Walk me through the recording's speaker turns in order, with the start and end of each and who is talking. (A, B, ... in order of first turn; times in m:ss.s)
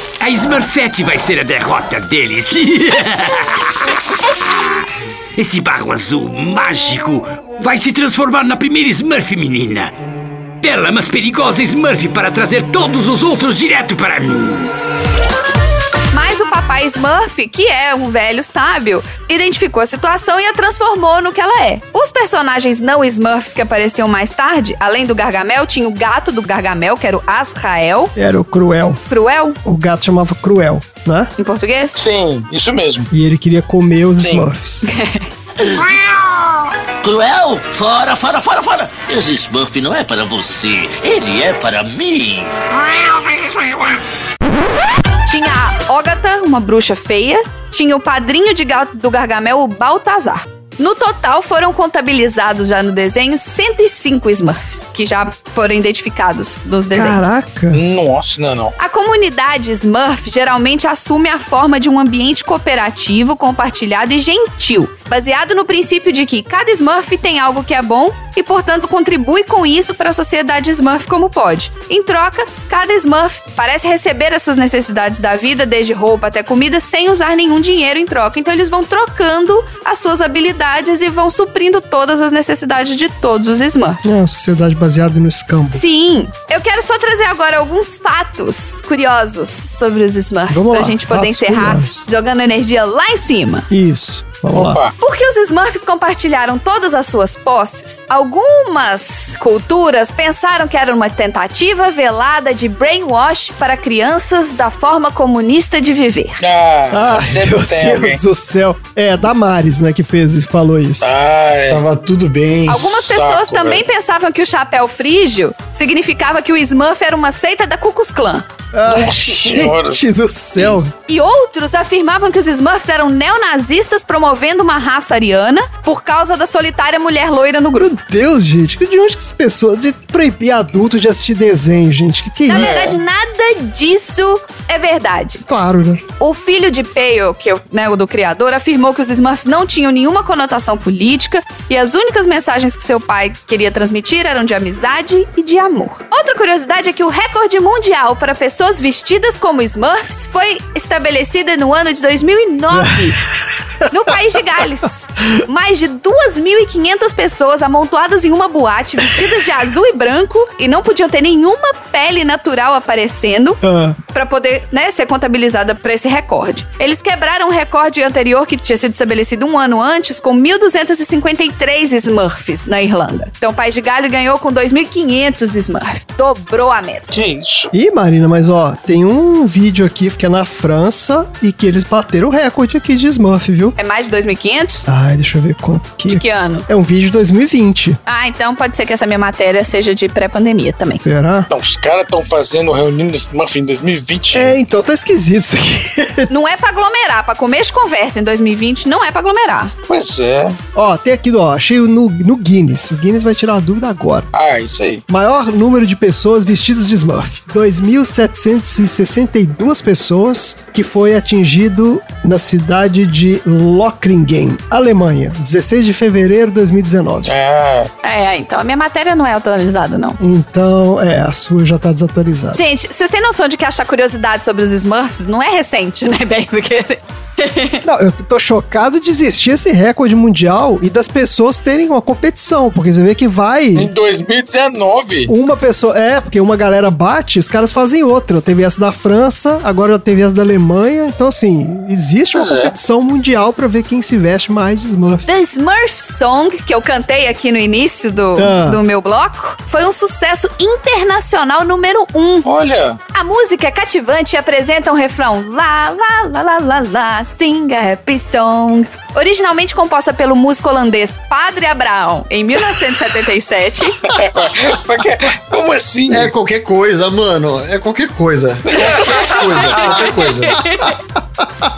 0:00.2-0:04.8 A
0:05.4-0:09.9 A
0:10.6-0:14.7 A
0:16.1-0:28.1 B
0:28.2-0:29.0 C
0:29.1-0:29.6 B
0:29.6-0:31.3 C
0:31.4-0:32.0 B
0:32.0-0:33.1 D
0:33.1-0:34.8 C
0:34.2-0:34.5 D
0:34.8-0:35.3 B
0:37.0-0:42.5 E
0:45.3-0:57.2 B
0:56.9-0:57.8 C
0:57.7-0:58.7 D
0:58.8-1:24.0 B
1:24.0-1:25.8 C
1:25.7-1:33.7 B
1:30.5-1:32.0 C
1:33.7-1:34.8 C
1:34.5-1:34.9 D
1:35.0-1:46.4 B
1:46.4-1:48.2 D
1:46.9-1:51.1 C
1:51.0-1:51.8 D
1:51.7-1:52.9 F
1:52.7-1:58.5 B
1:52.7-1:53.8 D
1:58.7-2:00.9 C
1:58.9-2:00.0 D
2:01.1-2:08.0 B
2:07.8-2:13.0 C
2:12.5-2:15.4 B
2:12.5-2:13.0 D
2:15.5-2:16.0 C
2:16.2-2:33.2 B
2:32.7-2:33.5 C
2:33.9-2:57.1 B
2:43.6-2:44.0 C
2:57.1-2:57.7 D
2:57.7-3:03.8 C
3:03.8-3:04.9 B
3:04.9-3:08.0 C
3:06.1-3:06.7 B
3:08.1-3:11.0 B
3:11.0-3:11.5 C
3:11.5-3:14.5 D
3:14.3-3:16.3 C
3:16.3-3:19.7 B
3:19.9-3:20.6 D
3:20.8-3:24.3 C
3:24.3-3:25.0 D
3:25.1-3:37.3 C
3:37.3-3:37.9 D
3:38.0-3:40.2 B
3:40.2-3:42.6 C
3:42.5-3:47.8 B
3:47.8-3:53.9 C
3:53.8-3:55.3 D
3:55.3-4:05.2 C
4:02.4-4:02.7 D
4:05.3-4:12.5 B
4:08.4-4:08.8 C
4:12.4-4:13.0 D
4:13.1-4:24.0 B
4:24.1-4:26.3 D
4:26.1-4:30.6 F
4:28.7-4:30.2 D
4:29.3-4:29.9 B
4:29.8-4:30.0 C
4:30.4-4:31.0 B